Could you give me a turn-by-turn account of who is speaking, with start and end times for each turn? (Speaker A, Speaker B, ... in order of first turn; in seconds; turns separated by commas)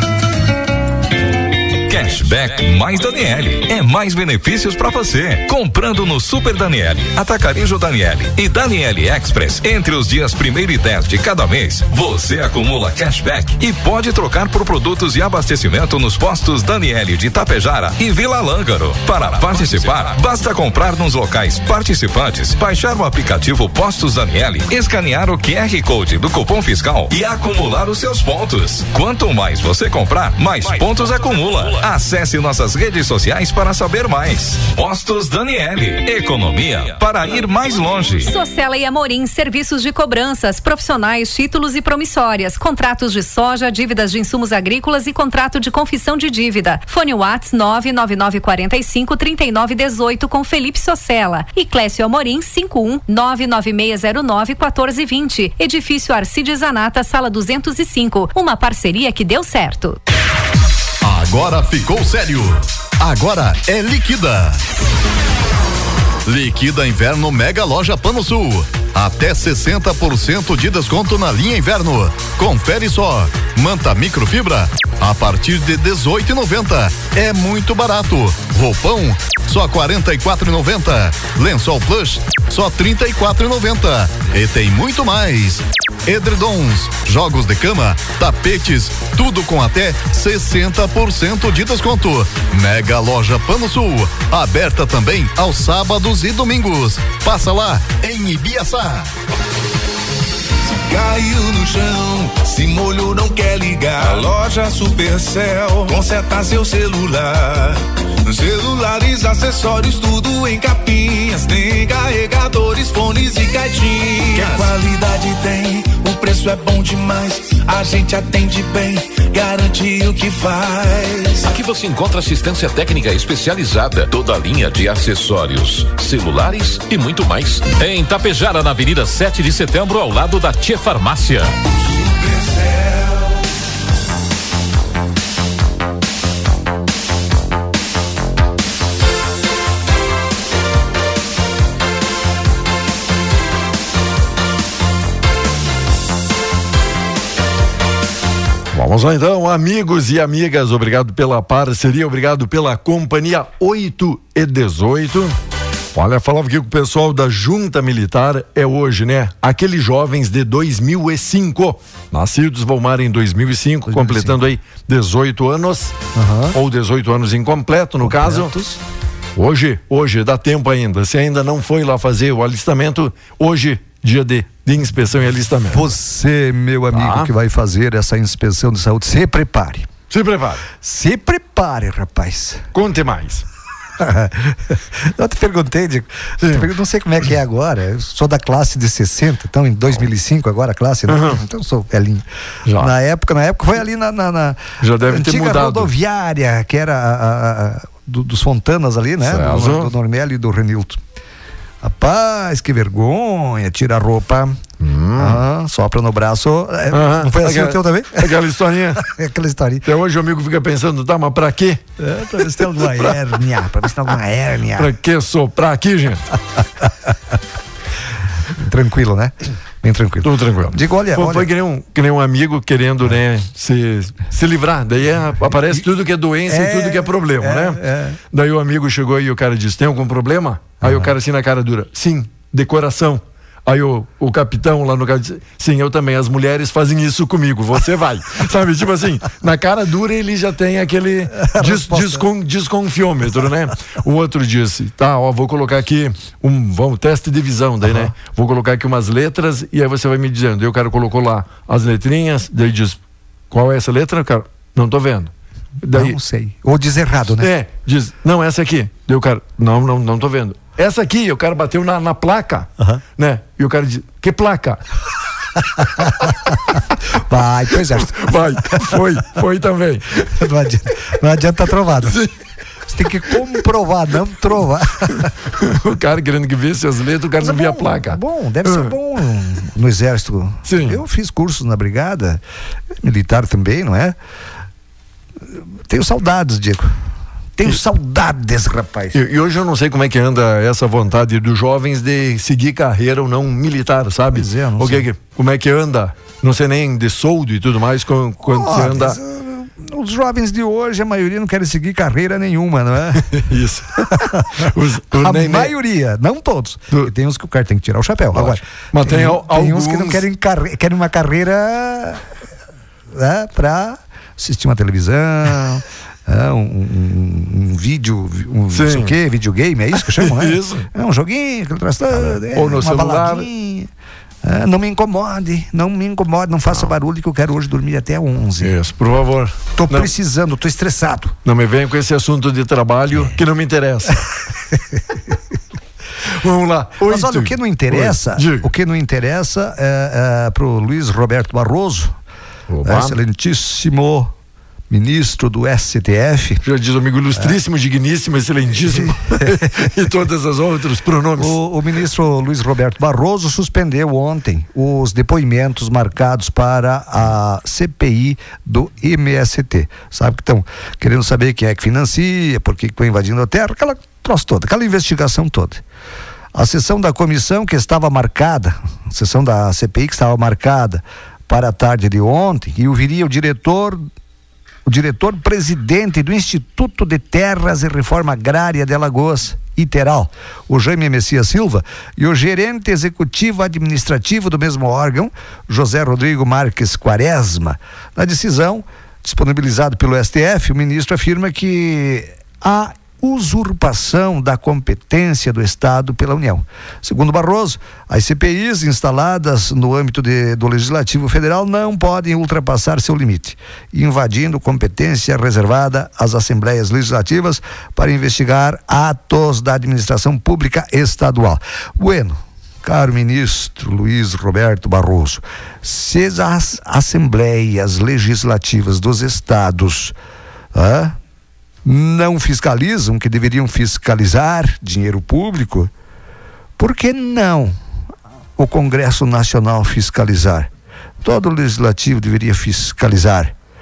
Speaker A: 1.9-38.3, Speaker B: 38.2-60.0, Speaker C: 61.0-64.6, Speaker C: 66.2-99.1, Speaker D: 100.7-121.4, Speaker E: 121.4-127.8, Speaker F: 148.7-155.4, Speaker F: 155.9-166.0, Speaker G: 163.9-164.4, Speaker G: 166.2-166.6, Speaker F: 166.5-168.5, Speaker G: 168.0-168.8, Speaker F: 169.4-175.9, Speaker G: 175.7-179.9, Speaker F: 176.9-177.3, Speaker F: 180.1-180.6, Speaker G: 180.8-182.7, Speaker F: 182.7-183.5, Speaker G: 184.0-192.2, Speaker F: 186.4-186.7, Speaker F: 191.1-191.4, Speaker F: 192.7-192.9, Speaker G: 192.8-201.0, Speaker F: 194.8-195.9, Speaker F: 199.2-199.9, Speaker G: 201.8-204.6, Speaker F: 204.8-205.4, Speaker G: 205.2-208.3, Speaker F: 206.9-209.0, Speaker G: 209.0-209.8, Speaker F: 209.8-211.8, Speaker G: 212.0-214.9, Speaker F: 212.4-213.2, Speaker F: 214.8-216.2, Speaker G: 218.6-221.5, Speaker F: 220.2-253.0, Speaker G: 226.5-228.2, Speaker G: 230.8-231.1, Speaker G: 241.4-242.2, Speaker G: 247.8-248.1, Speaker F: 253.5-256.2, Speaker G: 255.9-257.5, Speaker F: 257.4-264.8, Speaker G: 265.8-268.9, Speaker F: 267.9-270.2, Speaker G: 270.2-272.2, Speaker G: 272.9-275.3, Speaker F: 275.6-278.9, Speaker G: 277.4-282.4, Speaker F: 280.7-281.0, Speaker G: 283.0-284.1, Speaker G: 285.5-287.0, Speaker G: 287.6-289.2, Speaker F: 289.1-299.2, Speaker G: 294.3-295.1, Speaker G: 298.5-303.2, Speaker F: 303.3-305.7, Speaker G: 304.1-304.7, Speaker G: 305.2-312.2, Speaker F: 308.3-310.2, Speaker G: 313.1-323.9, Speaker F: 318.7-319.2, Speaker F: 319.9-320.9, Speaker F: 322.1-323.5, Speaker G: 324.4-328.7, Speaker F: 326.7-326.9, Speaker F: 328.6-330.1, Speaker G: 329.8-331.4, Speaker F: 331.4-334.2, Speaker F: 336.3-338.7, Speaker G: 337.0-342.1, Speaker F: 342.7-343.2, Speaker G: 342.9-344.3, Speaker G: 344.9-346.6, Speaker F: 346.6-351.6, Speaker G: 349.0-349.7, Speaker G: 351.4-365.8, Speaker G: 366.5-374.1, Speaker G: 374.9-420.1, Speaker G: 420.7-421.2, Speaker G: 421.8-425.9, Speaker G: 426.8-427.8, Speaker G: 428.6-430.7, Speaker G: 431.2-433.5